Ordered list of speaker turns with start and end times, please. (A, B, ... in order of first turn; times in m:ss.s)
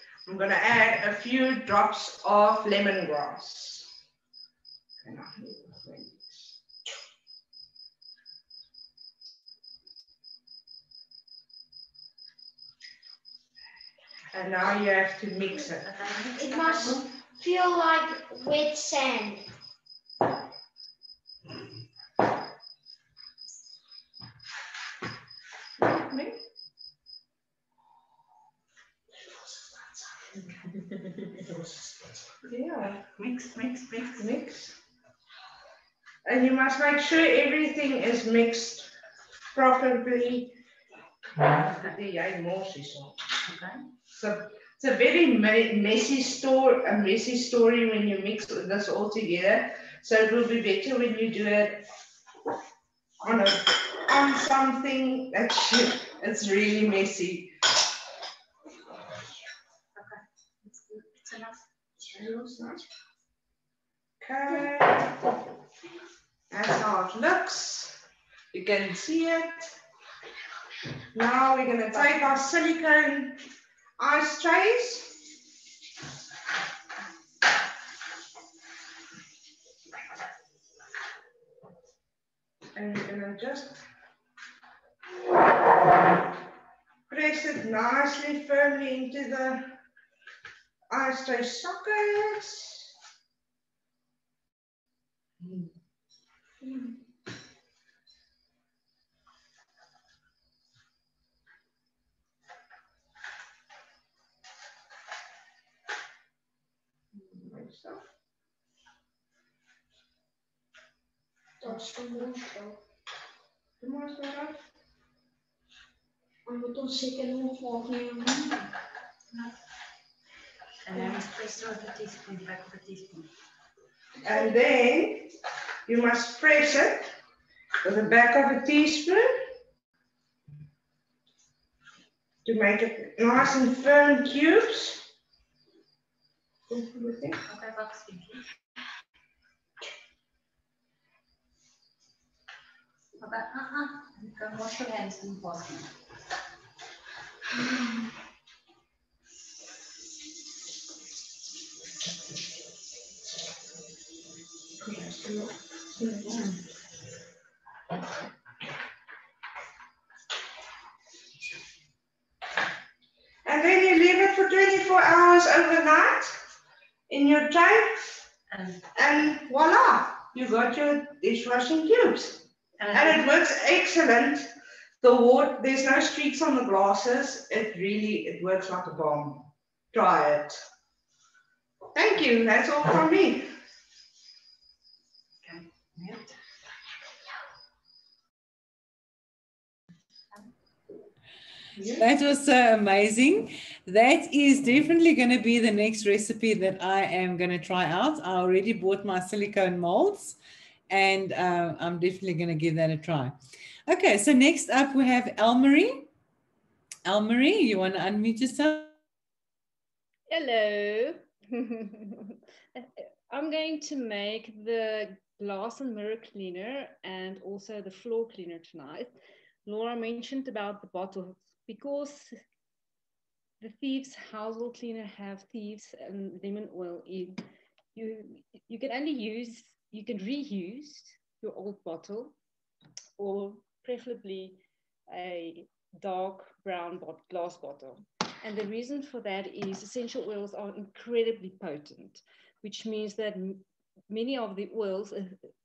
0:00.3-0:03.9 A
0:05.0-0:06.6 A
0:14.3-0:15.9 A
0:16.0-0:16.9 B
0:16.4-0:19.5 C
0:25.8-0:26.4 A
0:32.4-0:33.0 A
0:33.2-0:34.2 B
0:34.2-0:34.8 A
0:36.2-0:38.9 A
0:39.5-0:40.6 A
0:41.4-0:43.2 A
0:43.5-0:43.8 B
0:44.1-0:51.9 A
0:53.2-0:57.6 A
1:00.0-1:01.6 B
1:02.0-1:02.8 A
1:04.2-1:05.4 A
1:06.5-1:08.0 A
1:08.5-1:09.7 A
1:11.1-1:13.4 A
1:14.0-1:15.3 A
1:22.8-1:23.8 A
1:27.1-1:29.7 A
1:30.9-1:32.9 A
1:36.6-1:36.9 C
1:47.1-1:48.0 A
1:51.6-1:52.8 C
1:53.8-1:54.6 A
1:56.5-1:58.6 C
2:00.9-2:03.3 B
2:04.2-2:05.3 A
2:05.9-2:07.1 A
2:07.8-2:09.5 A
2:12.4-2:15.1 A
2:16.7-2:17.4 A
2:17.5-2:18.4 B
2:23.2-2:25.9 B
2:34.8-2:36.6 A
2:43.4-2:46.3 A
2:47.1-2:48.2 A
2:48.5-2:48.8 B
2:49.0-2:54.4 A
2:52.8-2:53.2 B
2:55.0-3:00.6 A
3:01.9-3:03.5 A
3:05.5-3:06.2 B
3:12.0-3:20.4 D
3:20.9-3:26.1 D
3:27.0-3:28.9 D
3:30.3-3:42.4 E
3:43.6-3:47.4 E
3:48.0-3:52.4 E
3:53.2-4:05.4 E